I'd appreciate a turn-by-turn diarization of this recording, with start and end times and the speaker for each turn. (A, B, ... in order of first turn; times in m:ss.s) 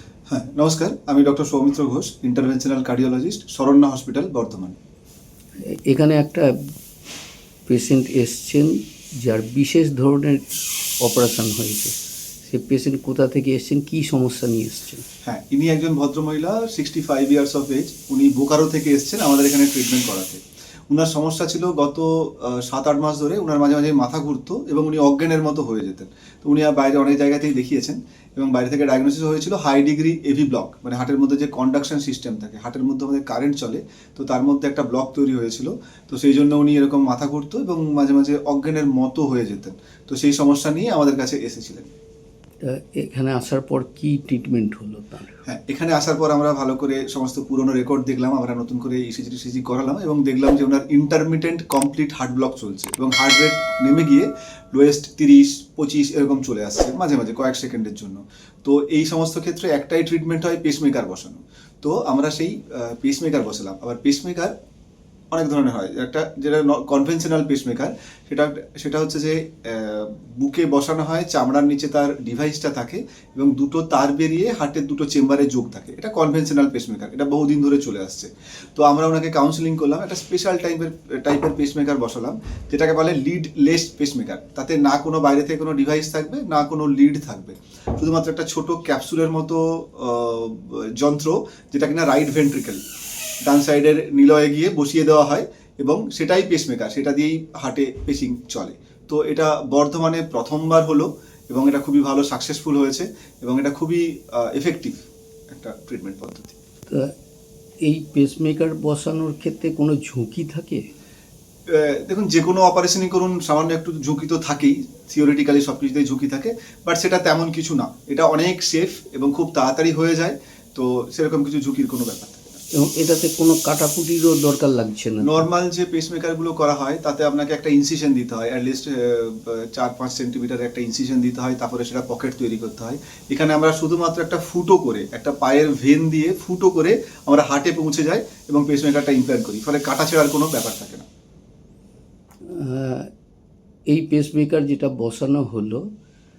0:00.3-0:04.8 A
0:05.7-0:06.6 B
0:07.7-0:10.5 B
0:11.0-0:11.9 B
0:12.4-0:15.0 B
0:15.2-0:41.9 A
0:42.6-0:45.4 B
0:45.5-1:04.5 A
1:05.3-1:32.8 A
1:33.4-1:46.6 A
1:47.8-1:50.8 B
1:51.7-2:02.6 A
2:02.8-2:05.4 B
2:05.2-2:21.1 A
2:22.5-2:23.1 B
2:23.9-2:25.9 B